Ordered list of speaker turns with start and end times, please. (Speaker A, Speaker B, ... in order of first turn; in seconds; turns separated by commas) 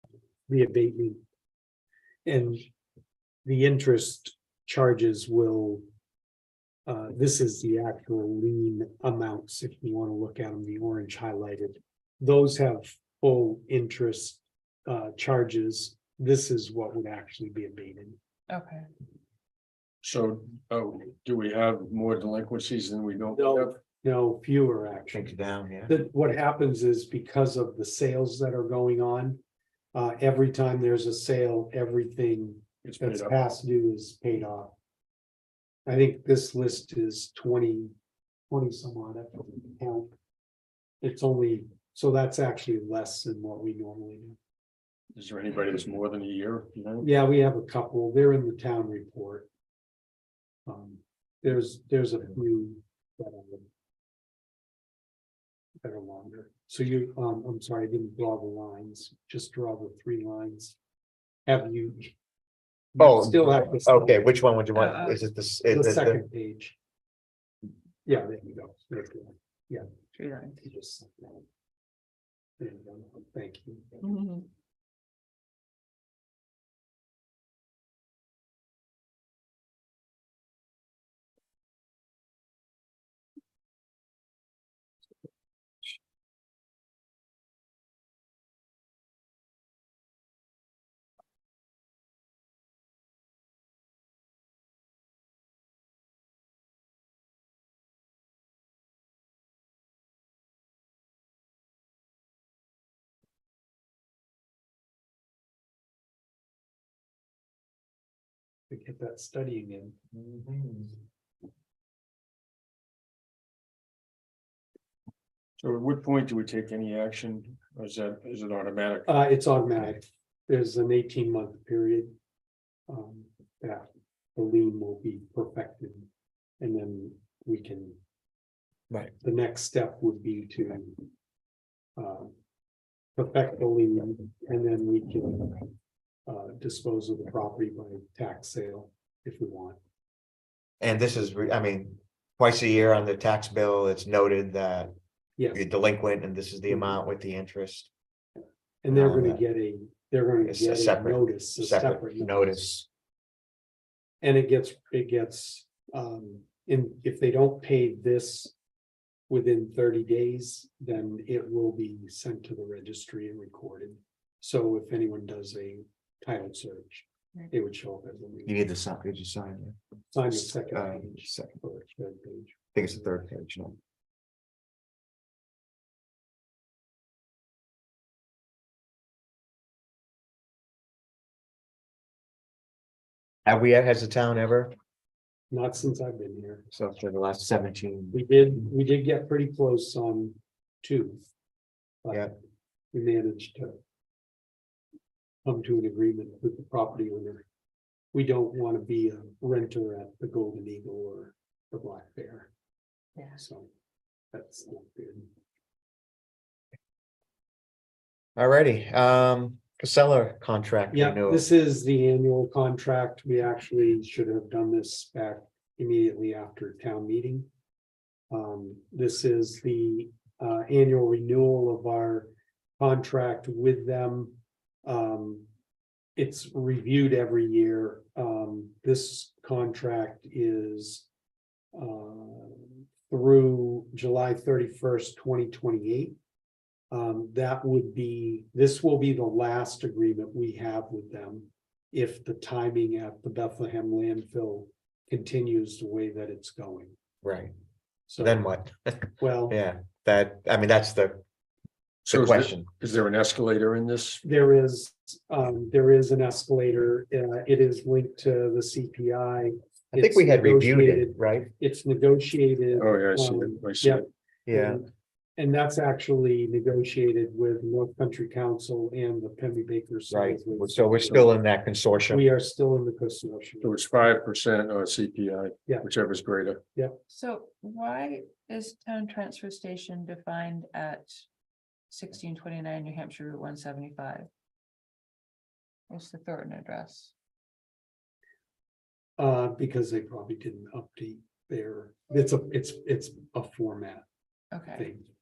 Speaker A: 0.5-1.2, Speaker A: 2.2-2.7, Speaker A: 3.4-5.8, Speaker A: 6.8-18.2, Speaker B: 18.5-18.9, Speaker C: 20.0-23.7, Speaker A: 23.3-25.3, Speaker D: 25.1-25.9, Speaker A: 25.9-29.4, Speaker A: 29.9-34.7, Speaker C: 32.8-33.3, Speaker A: 35.9-37.9, Speaker A: 38.5-40.1, Speaker A: 41.0-44.4, Speaker C: 45.1-47.1, Speaker A: 47.0-49.5, Speaker A: 50.6-53.7, Speaker A: 55.8-60.8, Speaker A: 61.5-62.1, Speaker A: 62.9-64.3, Speaker D: 63.0-66.2, Speaker B: 64.7-65.2, Speaker A: 65.7-66.8, Speaker A: 68.0-69.8, Speaker B: 70.1-70.6, Speaker A: 70.6-71.4, Speaker A: 72.6-74.0, Speaker B: 74.0-74.5, Speaker A: 108.7-110.0, Speaker D: 110.1-110.9, Speaker C: 115.6-119.1, Speaker A: 119.0-122.1, Speaker A: 122.9-126.1, Speaker A: 126.6-128.0, Speaker A: 129.2-131.1, Speaker A: 131.9-132.3, Speaker A: 133.2-135.7, Speaker A: 136.2-139.8, Speaker D: 140.8-144.9, Speaker A: 145.4-145.6, Speaker D: 145.5-147.9, Speaker A: 148.8-152.6, Speaker D: 148.9-149.4, Speaker D: 150.4-152.8, Speaker A: 154.2-158.5, Speaker A: 159.3-168.6, Speaker D: 168.4-169.8, Speaker A: 170.1-173.3, Speaker D: 170.3-171.6, Speaker D: 172.7-173.8, Speaker D: 183.4-184.7, Speaker A: 185.5-186.7, Speaker D: 186.7-188.2, Speaker A: 188.1-191.2, Speaker A: 192.0-192.3, Speaker A: 192.9-193.8, Speaker A: 195.4-197.4, Speaker A: 198.1-202.5, Speaker A: 203.3-203.7, Speaker A: 204.3-205.3, Speaker D: 208.3-211.4, Speaker A: 210.9-217.5, Speaker A: 218.3-225.4, Speaker A: 226.2-231.1, Speaker A: 231.7-236.2, Speaker A: 236.9-246.9, Speaker D: 247.2-247.5, Speaker A: 248.1-248.5, Speaker D: 248.2-251.2, Speaker A: 249.2-249.6, Speaker C: 252.0-254.2, Speaker D: 252.1-252.7, Speaker A: 254.2-271.4, Speaker D: 259.9-261.5, Speaker C: 262.7-264.0, Speaker D: 264.5-264.8, Speaker D: 270.1-272.2, Speaker A: 272.1-273.7, Speaker C: 273.6-276.6, Speaker B: 277.1-281.2, Speaker B: 281.9-284.3, Speaker B: 285.9-287.1, Speaker A: 289.2-294.1, Speaker B: 294.5-294.9, Speaker A: 294.7-295.1